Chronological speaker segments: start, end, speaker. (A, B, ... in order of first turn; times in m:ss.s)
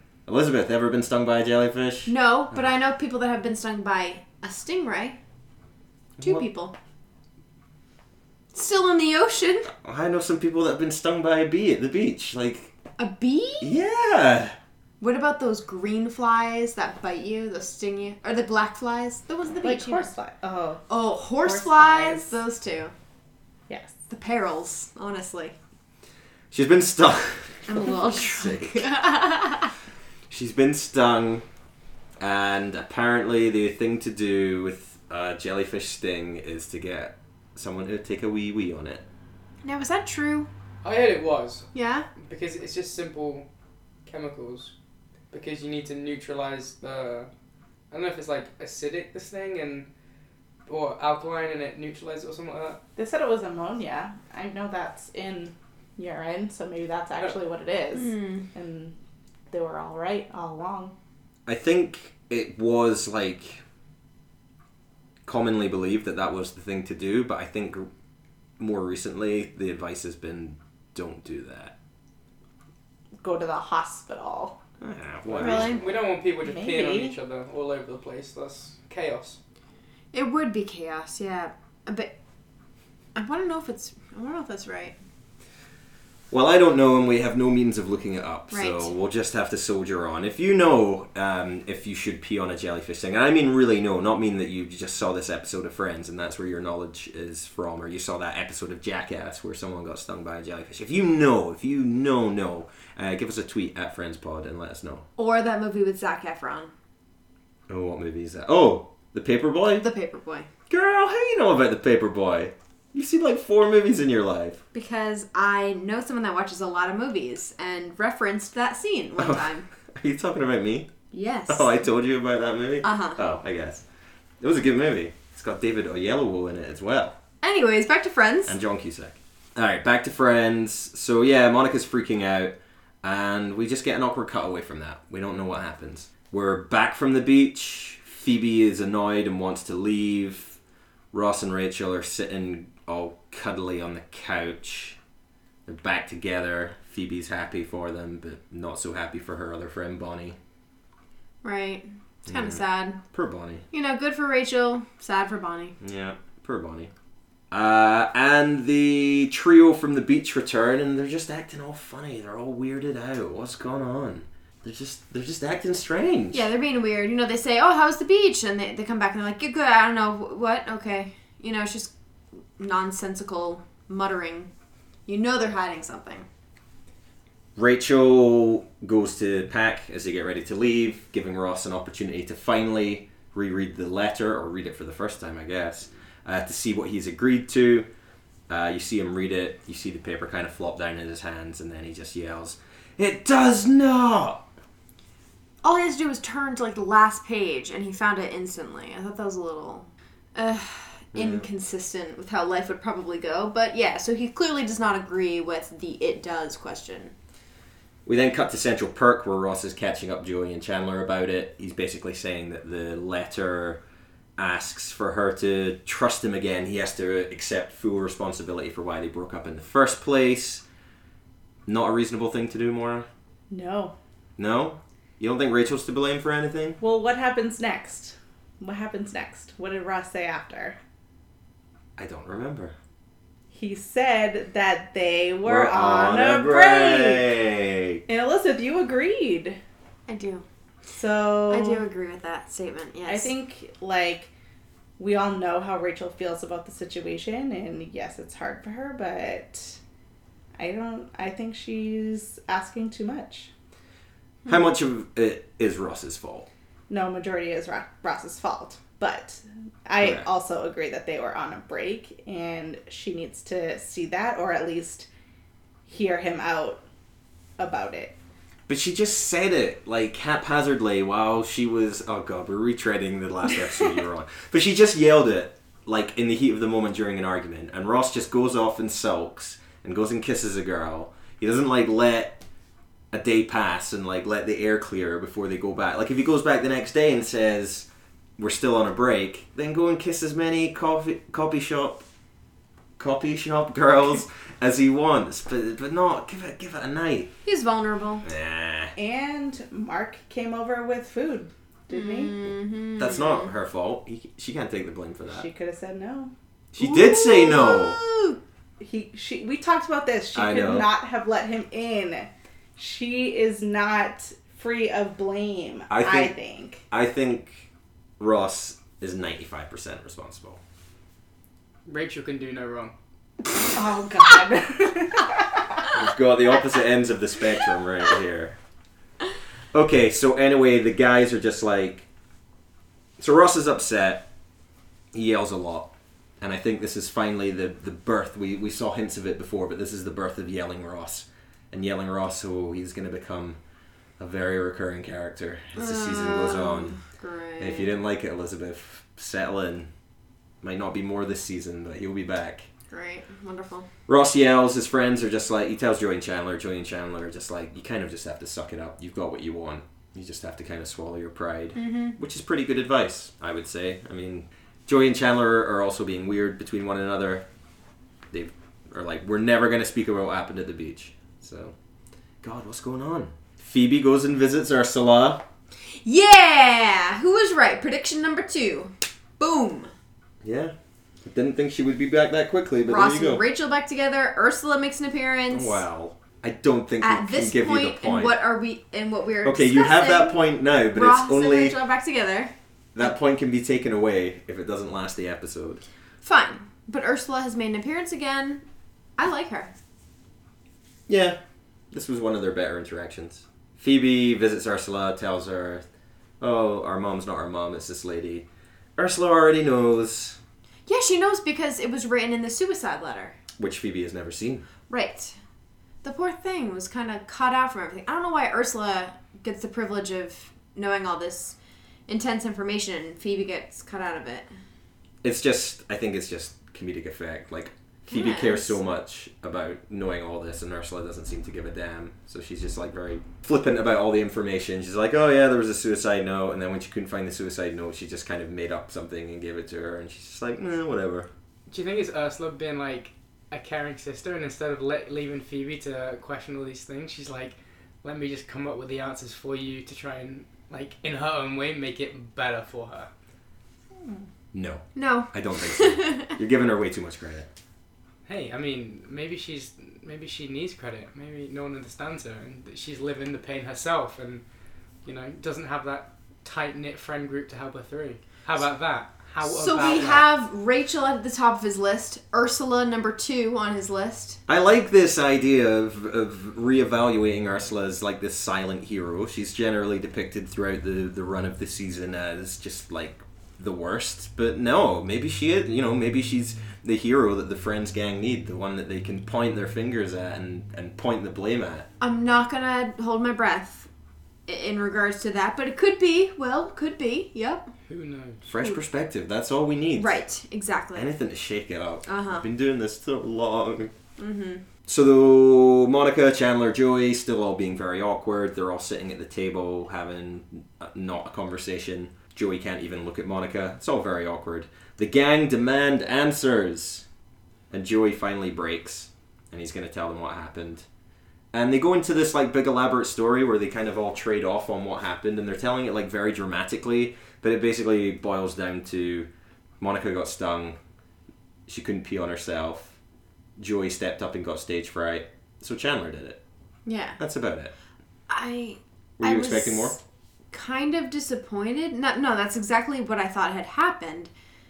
0:00.3-0:02.6 A
0:02.1-0:05.2 B
0:06.2-0:06.4 A
0:06.2-0:06.8 B
0:08.5-0:09.7 B
0:09.8-0:12.7 A
0:13.0-0:13.8 B
0:13.6-0:14.6 A
0:15.0-0:20.1 B
0:19.6-0:20.9 C
0:20.9-0:22.9 B
0:21.4-0:22.4 C
0:24.1-0:25.6 B
0:26.5-0:28.9 A
0:27.7-0:29.7 B
0:30.3-0:31.4 A
0:32.2-0:39.0 A
0:39.6-0:40.5 B
0:40.8-0:43.5 D
0:41.7-0:42.1 B
0:44.1-0:44.7 D
0:45.3-0:47.3 D
0:47.9-0:49.9 D
0:50.7-0:52.8 D
0:53.0-0:59.0 C
0:58.0-0:58.4 B
0:59.5-1:00.9 C
1:01.5-1:03.6 A
1:05.3-1:07.9 A
1:08.6-1:11.7 A
1:13.2-1:14.6 C
1:14.8-1:15.7 A
1:15.3-1:19.4 D
1:15.4-1:15.8 B
1:16.4-1:17.2 C
1:20.1-1:22.1 B
1:23.2-1:25.0 B
1:26.3-1:45.0 A
1:28.5-1:28.9 B
1:45.2-1:46.7 B
1:47.7-1:49.8 A
1:49.8-1:50.5 B
1:50.7-1:54.6 A
1:54.7-1:59.7 B
1:59.2-2:00.9 A
2:01.1-2:01.7 B
2:01.5-2:03.8 A
2:02.8-2:03.2 B
2:04.4-2:07.2 A
2:07.4-2:08.6 B
2:08.5-2:20.6 A
2:21.1-2:25.0 A
2:25.7-2:30.4 A
2:31.4-2:33.0 B
2:32.3-2:33.6 A
2:33.7-2:35.8 B
2:35.8-2:36.9 A
2:37.5-2:46.5 A
2:46.3-2:51.9 B
2:52.6-2:54.5 B
2:55.1-2:56.3 B
2:57.6-3:07.9 A
3:08.5-3:14.4 A
3:15.6-3:27.1 B
3:21.1-3:21.5 A
3:28.1-3:33.8 A
3:34.4-3:40.6 A
3:41.7-3:43.1 A
3:43.5-3:44.0 C
3:44.4-3:46.8 A
3:46.8-3:50.8 C
3:52.0-3:52.7 A
3:53.5-3:57.3 C
3:55.4-3:58.0 A
3:58.1-3:59.6 C
4:00.1-4:00.4 B
4:00.9-4:01.8 C
4:01.5-4:03.3 B
4:03.1-4:04.3 C
4:05.0-4:09.8 C
4:10.6-4:13.5 C
4:14.5-4:16.5 A
4:16.9-4:25.1 C
4:20.0-4:20.3 A
4:25.9-4:26.8 C
4:27.6-4:28.2 C
4:28.7-4:42.4 A
4:43.1-4:52.0 A
4:53.0-4:57.3 A
4:57.4-4:58.2 B
4:58.2-4:58.9 A
4:59.0-5:02.4 C
5:01.9-5:03.5 B
5:03.0-5:05.5 A
5:05.3-5:06.3 C
5:06.7-5:08.0 A
5:06.8-5:08.4 B
5:08.8-5:16.8 C
5:10.3-5:10.9 A
5:15.9-5:16.3 A
5:16.9-5:17.7 A
5:18.2-5:20.6 A
5:21.9-5:22.9 D
5:23.7-5:25.5 C
5:25.9-5:28.6 A
5:29.7-5:32.1 A
5:33.2-5:34.3 A
5:35.1-5:43.6 A
5:44.2-5:47.0 A
5:45.8-5:47.9 B
5:47.6-5:49.9 A
5:50.6-5:52.7 A
5:52.9-5:53.9 B
5:54.1-6:07.5 A
6:01.8-6:02.2 B
6:08.3-6:11.8 A
6:12.4-6:15.4 A
6:16.0-6:19.9 B
6:20.4-6:23.4 A
6:22.9-6:25.8 B
6:25.5-6:28.4 A
6:27.0-6:30.4 B
6:29.4-6:31.8 A
6:30.9-6:32.5 B
6:33.0-6:35.8 A
6:36.2-6:38.6 B
6:39.2-6:39.7 B
6:41.1-6:41.4 A
6:41.9-6:45.9 A
6:46.4-6:50.4 A
6:50.9-6:53.4 B
6:53.6-6:54.6 A
6:54.9-6:55.4 B
6:56.0-7:01.6 B
7:02.1-7:04.5 B
7:05.2-7:21.3 A
7:08.1-7:08.8 B
7:21.7-7:33.1 D
7:34.0-7:34.3 C
7:34.5-7:37.5 A
7:35.0-7:36.4 B
7:38.3-7:44.4 D
7:45.0-7:50.3 D
7:49.4-7:54.4 B
7:54.5-8:11.9 A
8:12.0-8:13.9 B
8:14.5-8:17.7 B
8:17.9-8:18.4 D
8:18.4-8:20.2 A
8:20.0-8:21.2 B
8:21.0-8:23.9 A
8:22.1-8:22.4 B
8:24.2-8:24.6 B
8:24.9-8:37.0 A
8:37.7-8:40.9 A
8:41.5-8:49.3 A
8:49.8-8:50.8 A
8:51.7-8:53.0 A
8:53.6-8:56.4 A
8:56.9-8:57.2 B
8:57.2-8:57.7 A
8:58.3-9:00.0 B
8:59.2-9:00.0 A
9:00.5-9:04.3 B